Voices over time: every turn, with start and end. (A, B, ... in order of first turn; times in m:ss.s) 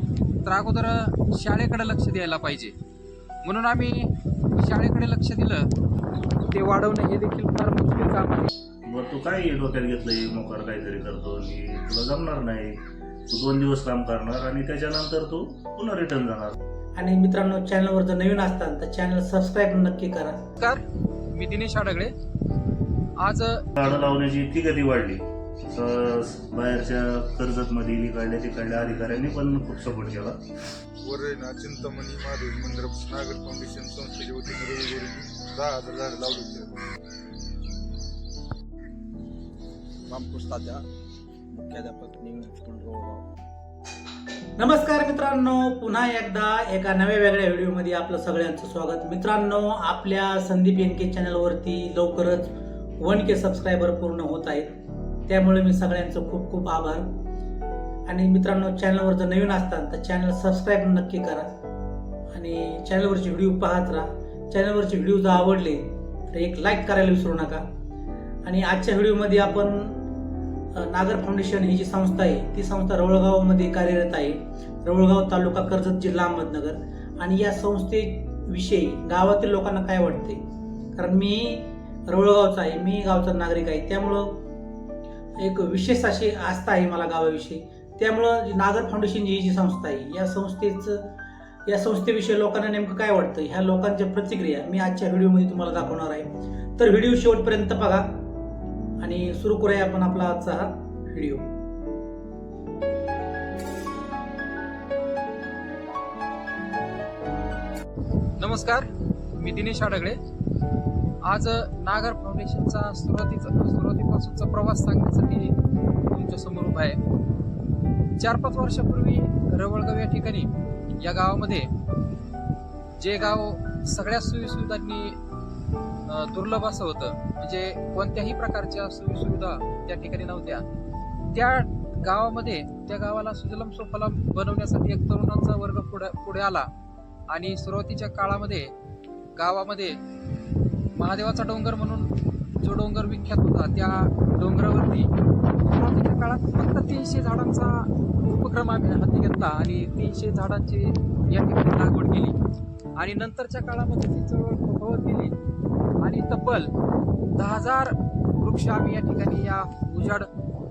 0:00.4-0:02.7 A
0:03.4-0:05.7 A
0:06.5-0:08.5 A
0:08.8-0:16.5 B
0:17.0-0:20.4 C
0:20.6-0:22.1 A
0:23.2-0:23.6 A
0:23.8-0:30.4 B
0:31.0-0:36.8 D
0:40.1-0:40.8 E
0:41.5-0:43.2 E
0:44.6-0:54.7 C
0:55.3-0:57.1 C
0:58.1-1:01.5 C
1:02.3-1:07.6 C
1:08.4-1:10.0 C
1:10.8-1:20.4 C
1:21.0-1:24.4 C
1:25.4-1:31.0 C
1:31.6-1:38.2 C
1:39.0-1:41.4 C
1:48.4-1:48.9 A
1:49.4-1:50.2 A
1:51.2-1:55.5 A
1:56.1-1:57.0 A
1:58.2-2:00.5 A
2:01.0-2:01.7 A
2:03.0-2:05.2 A
2:06.1-2:10.6 A
2:11.3-2:16.7 A
2:17.3-2:18.7 A
2:19.4-2:20.0 A
2:20.9-2:22.1 A
2:22.6-2:32.4 A
2:33.0-2:35.3 A
2:36.0-2:36.7 A
2:37.3-2:40.3 A